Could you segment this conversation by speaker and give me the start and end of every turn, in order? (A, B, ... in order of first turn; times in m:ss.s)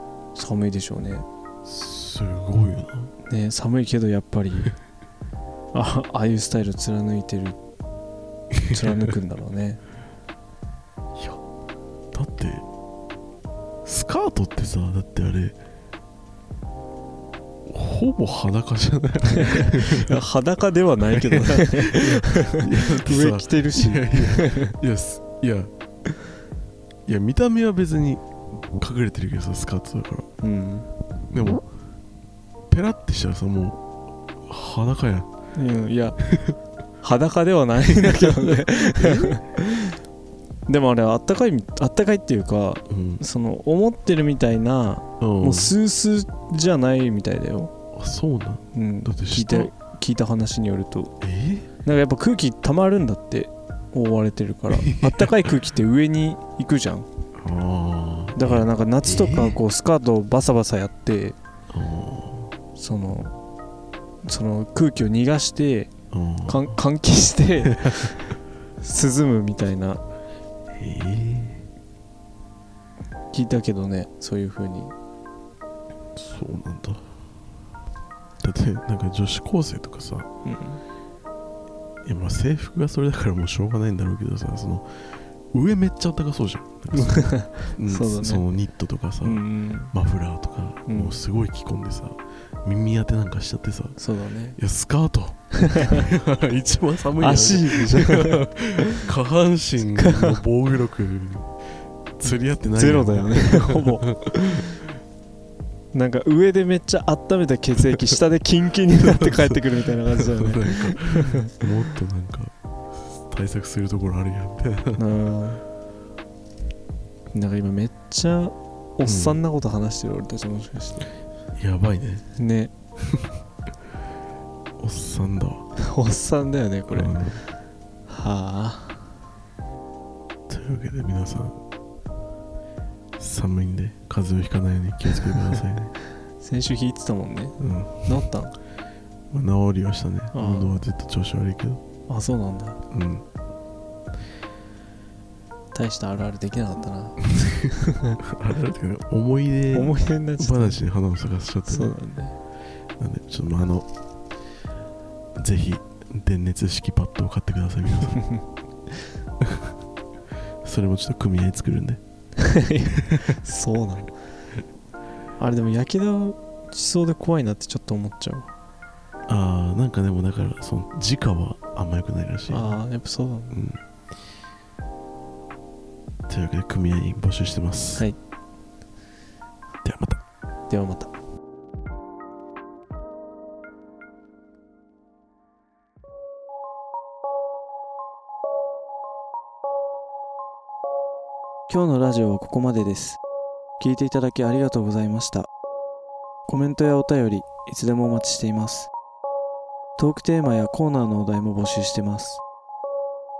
0:00.4-0:01.2 A
0:01.6-0:03.1 B
0:03.3-0:04.7 A
0:05.7-0:07.6 A
0:08.5-0:09.1 B
0:08.7-0:09.8 A
0:12.1-0:12.6 B
0:13.8-0:15.6 B
0:17.6-0:20.2 B
0:19.3-0:24.8 A
0:21.1-0:25.7 B
0:27.1-0:30.3 B
0:30.4-0:30.9 A
0:31.3-0:31.6 B
0:32.7-0:33.8 B
0:34.4-0:35.3 B
0:35.6-0:36.2 A
0:36.3-0:36.6 B
0:37.0-0:39.4 A
0:37.8-0:39.5 B
0:40.7-0:47.7 A
0:42.9-0:43.2 B
0:45.2-0:45.7 B
0:47.9-0:49.7 B
0:48.7-0:51.1 A
0:51.2-0:51.7 B
0:51.8-0:57.1 A
0:54.7-0:55.3 B
0:57.4-0:59.6 B
0:58.4-1:01.4 A
1:01.7-1:02.5 B
1:02.8-1:03.3 A
1:04.2-1:05.9 A
1:06.1-1:06.8 B
1:06.5-1:10.0 A
1:07.6-1:08.2 B
1:10.7-1:11.7 B
1:13.3-1:14.9 A
1:16.2-1:17.1 B
1:18.4-1:20.3 B
1:20.4-1:20.8 A
1:22.0-1:34.0 B
1:26.9-1:28.4 A
1:29.2-1:29.9 A
1:30.9-1:31.2 A
1:34.0-1:34.6 A
1:34.6-1:41.6 B
1:35.6-1:36.0 A
1:37.2-1:39.1 A
1:40.0-1:40.4 A
1:42.2-1:44.7 B
1:42.7-1:44.1 A
1:45.9-1:51.6 A
1:49.0-1:55.0 B
1:55.0-1:55.6 A
1:57.3-2:01.1 A
1:59.1-1:59.4 B
2:01.6-2:02.2 B
2:02.4-2:02.7 A
2:03.0-2:03.3 B
2:04.8-2:05.6 B
2:05.8-2:07.2 A
2:06.9-2:07.4 B
2:08.1-2:09.1 A
2:10.5-2:11.6 B
2:13.2-2:15.9 B
2:16.4-2:18.6 A
2:17.6-2:18.1 B
2:19.3-2:21.8 B
2:20.3-2:20.8 A
2:22.1-2:22.8 A
2:22.9-2:23.2 B
2:25.7-2:27.2 A
2:27.2-2:31.9 B
2:27.8-2:28.2 A
2:29.7-2:30.8 A
2:31.7-2:32.3 A
2:33.0-2:33.9 B
2:35.4-2:38.2 B
2:39.4-2:39.7 B
2:40.6-2:42.0 B
2:42.4-2:44.1 A
2:45.4-2:48.5 A
2:49.3-2:52.7 B
2:52.5-2:53.6 A
2:53.5-2:53.8 B
2:56.3-2:58.1 B
2:59.8-3:00.2 B
3:00.7-3:01.1 A
3:11.7-3:13.2 A
3:13.8-3:15.5 A
3:16.5-3:18.9 A
3:20.0-3:22.4 A